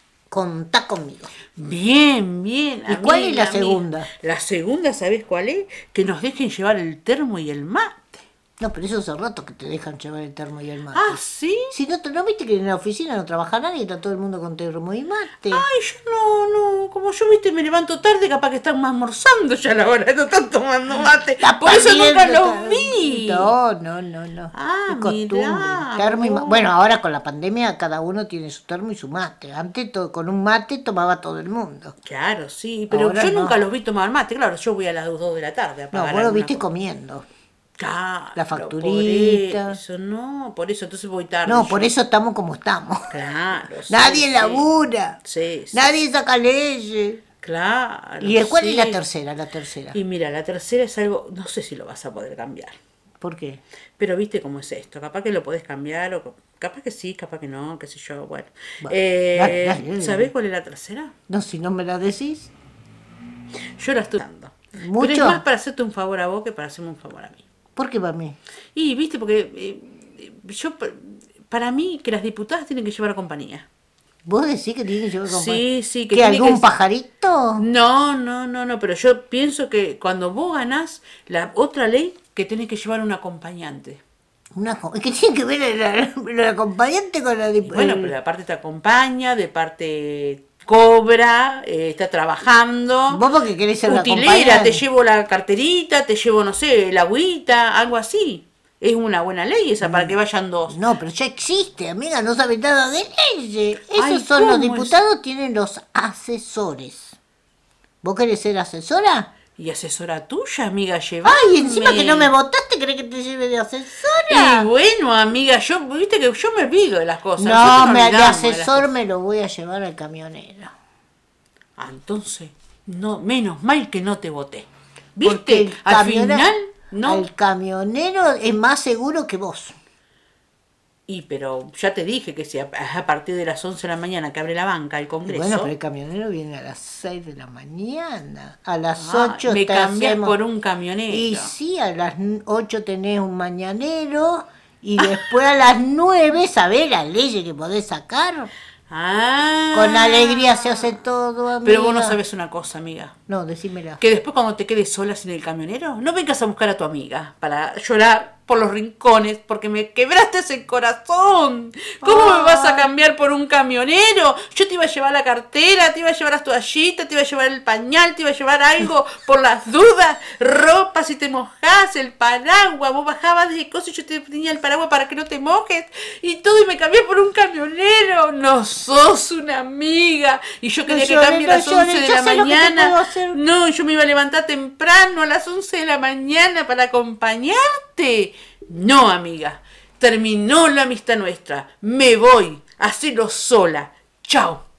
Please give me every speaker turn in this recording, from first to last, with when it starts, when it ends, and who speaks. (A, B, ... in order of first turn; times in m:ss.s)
0:00.3-0:01.3 A
0:01.6-0:08.2 B
0:02.9-0:04.1 A
0:08.6-0:11.2 A
0:10.9-0:11.7 B
0:11.7-0:15.7 A
0:15.4-0:23.6 B
0:21.4-0:31.9 A
0:24.5-0:26.7 B
0:32.0-0:36.6 B
0:32.9-0:33.6 A
0:35.9-0:37.3 A
0:37.8-0:41.9 B
0:38.4-0:39.8 A
0:41.4-0:43.2 A
0:43.1-0:44.7 B
0:43.9-0:45.2 A
0:45.2-0:45.8 B
0:45.7-0:47.2 A
0:47.4-0:49.0 B
0:48.2-0:50.0 A
0:49.9-0:52.8 B
0:53.2-0:53.6 A
0:54.0-1:01.1 B
0:58.8-1:00.3 A
1:01.3-1:02.5 A
1:03.8-1:07.4 B
1:04.8-1:05.4 A
1:07.8-1:08.4 A
1:08.8-1:13.7 B
1:14.3-1:17.6 A
1:15.3-1:16.7 B
1:17.6-1:24.0 B
1:24.6-1:28.1 A
1:27.6-1:33.2 B
1:33.1-1:34.8 A
1:33.8-1:40.8 B
1:39.8-1:40.2 A
1:40.7-1:47.2 A
1:43.9-1:45.0 B
1:48.0-1:49.3 A
1:49.6-1:52.3 B
1:51.2-1:54.7 A
1:54.3-1:58.9 B
1:57.4-2:00.7 A
2:01.8-2:07.3 B
2:05.2-2:06.5 A
2:07.0-2:09.7 A
2:11.1-2:15.7 B
2:15.3-2:20.4 A
2:19.0-2:21.5 B
2:21.1-2:28.5 A
2:28.9-2:31.0 B
2:29.7-2:32.2 A
2:31.6-2:33.1 B
2:33.3-2:34.0 A
2:34.0-3:14.6 B
2:42.0-2:42.9 A
3:00.9-3:03.4 A